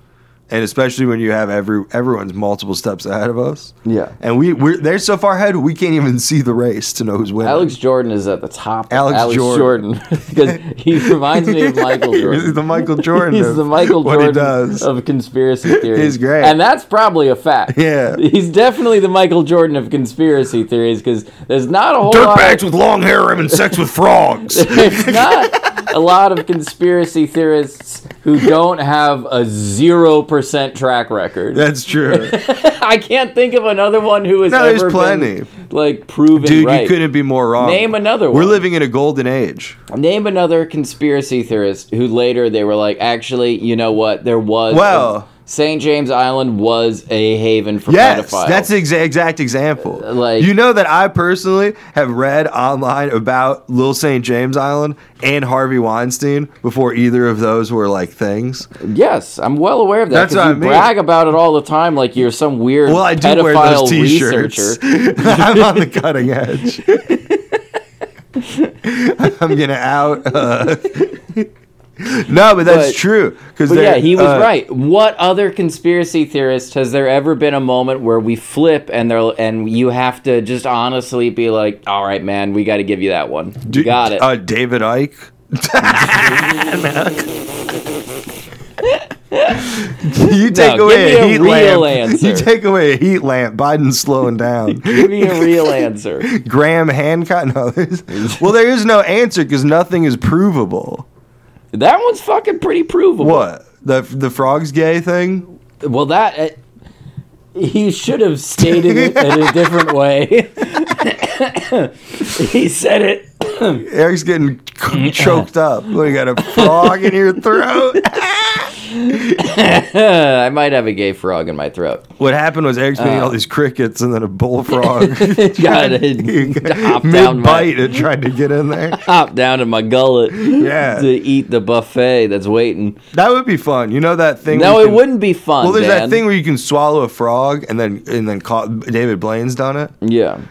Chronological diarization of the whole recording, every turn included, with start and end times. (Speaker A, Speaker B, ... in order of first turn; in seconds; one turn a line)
Speaker A: 0.5-7.7
Speaker B: 3.9-4.2
Speaker B: 7.4-22.6
Speaker A: 8.9-9.8
Speaker A: 10.4-14.9
Speaker A: 15.7-16.6
Speaker A: 17.7-18.2
Speaker A: 22.1-25.8
Speaker B: 24.5-37.0
Speaker A: 31.5-32.4
Speaker A: 34.5-35.5
Speaker A: 36.4-39.8
Speaker B: 37.6-38.6
Speaker B: 39.9-48.8
Speaker A: 44.7-45.3
Speaker A: 47.9-58.7
Speaker B: 49.9-50.5
Speaker B: 58.8-65.9
Speaker A: 60.1-60.9
Speaker A: 62.9-67.0
Speaker B: 66.9-67.6
Speaker B: 68.4-68.8
Speaker A: 68.8-74.5
Speaker B: 72.6-73.0
Speaker B: 73.7-84.2
Speaker A: 83.7-87.6
Speaker B: 88.8-92.5
Speaker A: 89.7-101.1
Speaker B: 94.7-96.3
Speaker B: 98.1-98.5
Speaker B: 101.7-103.5
Speaker A: 103.2-105.5
Speaker B: 105.8-106.6
Speaker B: 107.5-113.8
Speaker A: 108.6-109.8
Speaker A: 113.8-119.5
Speaker B: 114.9-115.5
Speaker B: 116.4-117.4
Speaker B: 118.8-122.1
Speaker A: 122.2-129.1
Speaker B: 123.0-123.4
Speaker B: 124.7-128.0
Speaker B: 128.9-133.0
Speaker A: 130.4-131.1
Speaker A: 133.1-135.1
Speaker B: 134.5-136.2
Speaker A: 135.6-139.9
Speaker B: 140.0-140.4